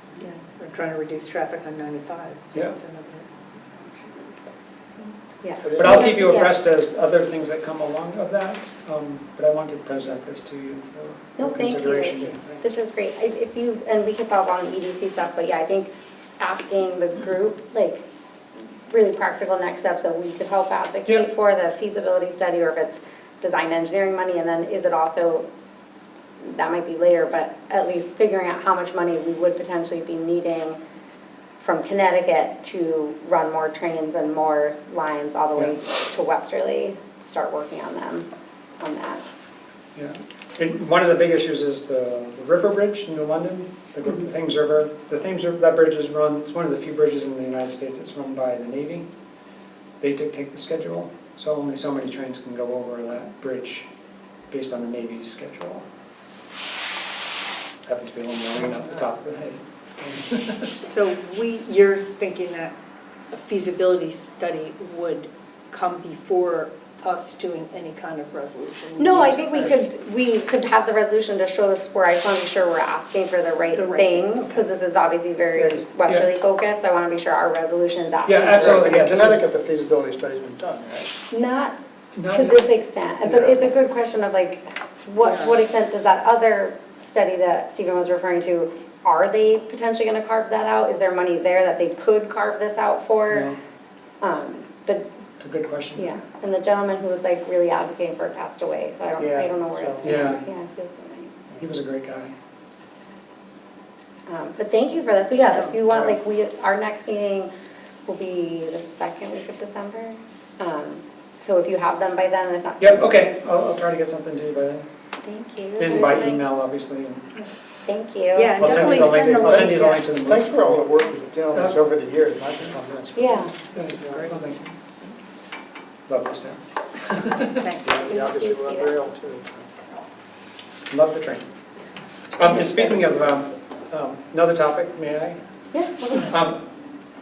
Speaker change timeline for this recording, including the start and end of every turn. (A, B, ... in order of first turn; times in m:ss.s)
0:00.2-0:03.3 A
0:05.4-0:06.5 B
0:05.7-0:12.5 C
0:11.4-0:18.0 B
0:18.9-0:25.4 B
0:26.4-0:30.8 B
0:31.6-0:38.3 B
0:38.8-0:39.2 B
0:39.9-0:49.1 C
0:50.0-0:53.9 C
0:54.5-0:55.8 C
0:57.8-1:00.7 C
1:00.8-1:02.7 A
1:03.3-1:09.8 A
1:09.0-1:19.0 B
1:13.7-1:14.7 A
1:18.2-1:19.4 C
1:18.6-1:21.1 D
1:21.3-1:21.8 B
1:22.1-1:22.6 C
1:22.3-1:33.5 B
1:23.2-1:23.6 D
1:25.2-1:25.5 A
1:33.3-1:33.6 C
1:34.2-1:35.0 B
1:35.4-1:36.1 C
1:36.0-1:41.4 B
1:39.2-1:40.2 D
1:40.0-1:40.4 C
1:41.6-1:42.3 C
1:44.3-1:47.5 B
1:48.1-1:53.1 B
1:52.8-1:54.8 C
1:55.2-1:56.4 B
1:55.8-1:57.3 C
1:57.8-1:58.8 B
1:58.3-2:00.1 A
1:58.6-2:00.8 C
1:59.0-2:04.4 D
2:03.2-2:03.5 B
2:03.7-2:04.8 C
2:06.1-2:07.5 C
2:07.6-2:07.9 A
2:07.8-2:09.7 D
2:07.9-2:09.0 B
2:10.9-2:11.5 C
2:12.3-2:15.4 C
2:12.5-2:12.9 B
2:15.7-2:16.3 B
2:16.3-2:16.6 C